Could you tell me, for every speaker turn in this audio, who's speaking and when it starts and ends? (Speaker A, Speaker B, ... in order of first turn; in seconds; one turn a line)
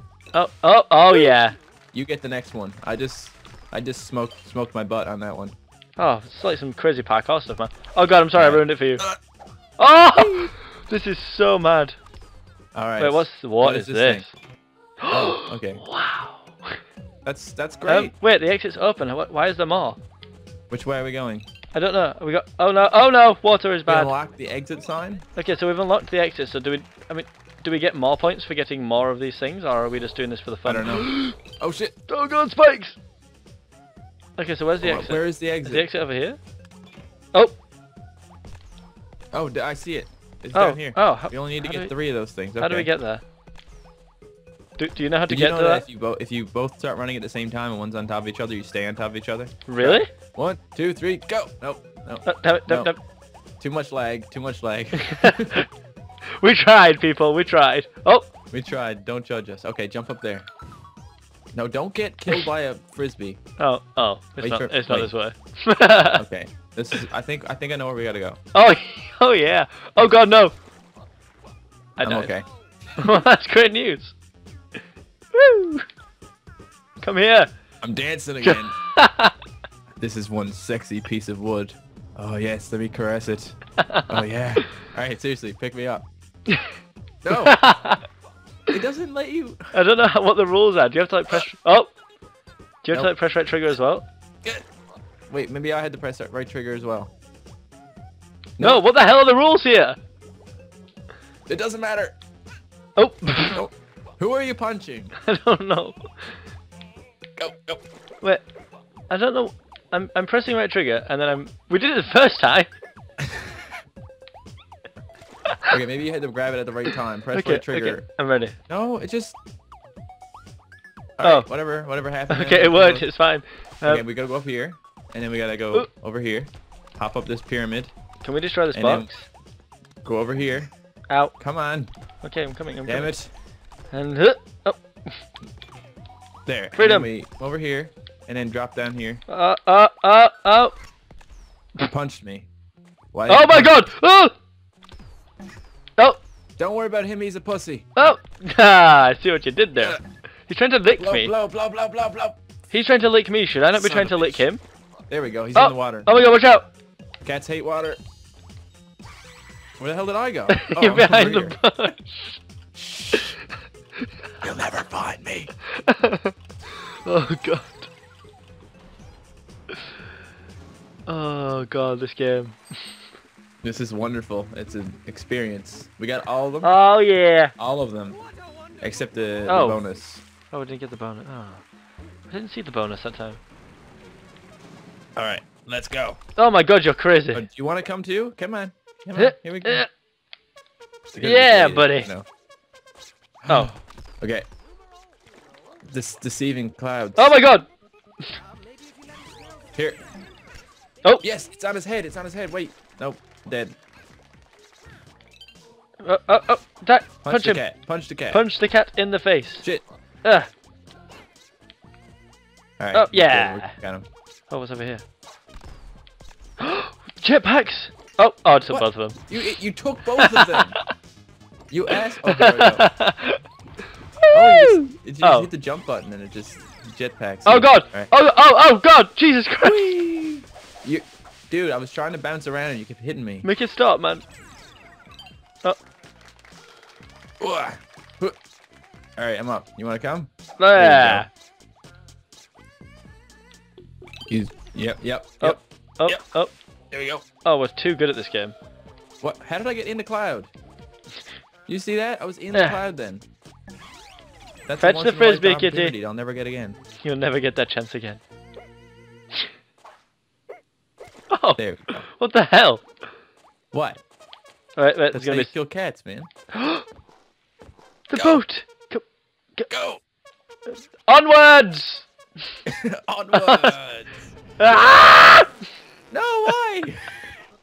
Speaker A: 0.3-1.6
Speaker B: 1.3-1.6
Speaker C: 1.9-5.5
Speaker A: 6.0-9.0
Speaker C: 8.3-9.2
Speaker A: 9.8-12.0
Speaker C: 10.1-10.5
Speaker C: 12.7-14.3
Speaker A: 13.0-14.3
Speaker A: 15.0-16.8
Speaker C: 15.1-15.8
Speaker C: 17.2-18.1
Speaker A: 17.9-20.0
Speaker C: 20.7-21.5
Speaker A: 21.7-24.1
Speaker C: 23.9-25.2
Speaker A: 25.4-31.4
Speaker C: 30.6-31.9
Speaker A: 32.1-33.0
Speaker A: 34.4-36.4
Speaker C: 34.8-35.9
Speaker C: 39.3-42.9
Speaker A: 40.5-41.9
Speaker A: 42.5-43.2
Speaker A: 44.8-45.8
Speaker C: 45.3-52.9
Speaker A: 49.7-50.1
Speaker A: 52.2-53.0
Speaker C: 53.6-55.6
Speaker A: 55.0-55.7
Speaker A: 56.4-58.3
Speaker C: 58.5-60.5
Speaker C: 61.5-63.4
Speaker A: 63.6-66.2
Speaker C: 64.4-65.1
Speaker C: 66.1-68.4
Speaker A: 68.5-70.5
Speaker A: 72.0-72.3
Speaker C: 72.0-72.5
Speaker A: 73.0-74.1
Speaker A: 75.3-75.8
Speaker A: 77.0-77.5
Speaker C: 77.8-78.8
Speaker A: 78.4-79.3
Speaker C: 80.0-86.1
Speaker A: 83.8-84.2
Speaker A: 86.5-86.8
Speaker C: 87.2-87.6
Speaker A: 87.3-88.0
Speaker C: 88.7-89.6
Speaker A: 89.7-91.9
Speaker A: 92.8-94.0
Speaker C: 95.3-97.1
Speaker A: 98.6-100.0
Speaker C: 101.5-102.2
Speaker A: 103.0-103.6
Speaker C: 103.4-105.2
Speaker A: 105.2-106.4
Speaker C: 107.4-107.8
Speaker A: 109.1-112.7
Speaker C: 113.2-113.6
Speaker C: 115.7-118.0
Speaker A: 117.3-118.5
Speaker C: 118.7-119.3
Speaker C: 121.2-123.1
Speaker A: 121.2-121.5
Speaker A: 122.3-124.0
Speaker C: 123.8-127.9
Speaker A: 128.2-129.2
Speaker C: 128.7-129.1
Speaker C: 130.0-130.7
Speaker A: 131.1-131.3
Speaker C: 131.4-131.9
Speaker A: 132.2-133.1
Speaker C: 132.8-133.3
Speaker A: 133.9-135.2
Speaker C: 136.4-139.2
Speaker A: 136.7-137.1
Speaker A: 139.3-140.7
Speaker C: 141.8-142.5
Speaker C: 143.1-143.8
Speaker A: 143.3-144.3
Speaker C: 146.6-147.9
Speaker A: 147.9-151.3
Speaker C: 150.9-152.4
Speaker A: 152.7-154.6
Speaker C: 153.7-154.5
Speaker C: 155.1-156.1
Speaker A: 155.5-156.7
Speaker C: 157.2-158.0
Speaker C: 159.8-161.6
Speaker A: 160.5-162.3
Speaker C: 162.7-163.3
Speaker C: 164.4-165.5
Speaker A: 165.7-166.3
Speaker A: 167.0-167.9
Speaker A: 171.1-172.6
Speaker C: 173.6-176.7
Speaker A: 176.6-177.5
Speaker C: 177.6-178.2
Speaker B: 178.2-179.6
Speaker C: 178.8-180.2
Speaker A: 179.5-179.8
Speaker A: 180.5-181.6
Speaker A: 182.3-183.4
Speaker C: 185.2-186.2
Speaker A: 186.4-187.4
Speaker C: 187.3-189.8
Speaker A: 189.2-189.9
Speaker C: 191.1-192.2
Speaker A: 191.2-192.1
Speaker C: 193.4-194.5
Speaker A: 193.5-193.8
Speaker B: 194.7-195.8
Speaker C: 195.8-197.4
Speaker A: 197.2-197.7
Speaker B: 198.3-200.7
Speaker C: 199.7-200.0
Speaker C: 201.2-203.8
Speaker A: 206.0-207.6
Speaker C: 207.2-208.4
Speaker A: 208.3-209.6
Speaker A: 210.2-210.5
Speaker C: 212.8-214.1
Speaker A: 212.9-213.8
Speaker A: 214.5-215.0
Speaker A: 216.6-219.6
Speaker C: 218.7-220.8
Speaker A: 220.1-220.9
Speaker C: 221.7-222.9
Speaker A: 221.9-223.4
Speaker A: 224.2-225.5
Speaker C: 224.3-228.1
Speaker A: 227.4-229.9
Speaker C: 229.6-233.5
Speaker A: 233.4-234.2
Speaker C: 237.4-238.4
Speaker C: 239.2-241.2
Speaker A: 240.6-241.3
Speaker C: 244.3-246.2
Speaker A: 245.4-246.5
Speaker C: 246.9-247.2
Speaker A: 247.4-248.6
Speaker C: 249.2-250.5
Speaker C: 251.7-253.2
Speaker A: 252.5-252.8
Speaker C: 254.7-256.8
Speaker A: 254.8-255.9
Speaker A: 257.0-258.2
Speaker A: 261.3-262.8
Speaker C: 261.6-262.1
Speaker C: 263.7-264.0
Speaker A: 264.8-265.5
Speaker C: 265.1-266.3
Speaker A: 266.5-266.8
Speaker A: 268.1-269.0
Speaker C: 268.1-268.4
Speaker C: 269.7-270.0
Speaker A: 271.1-272.0
Speaker C: 272.6-274.3
Speaker A: 273.3-273.8
Speaker A: 274.6-275.5
Speaker C: 276.1-277.3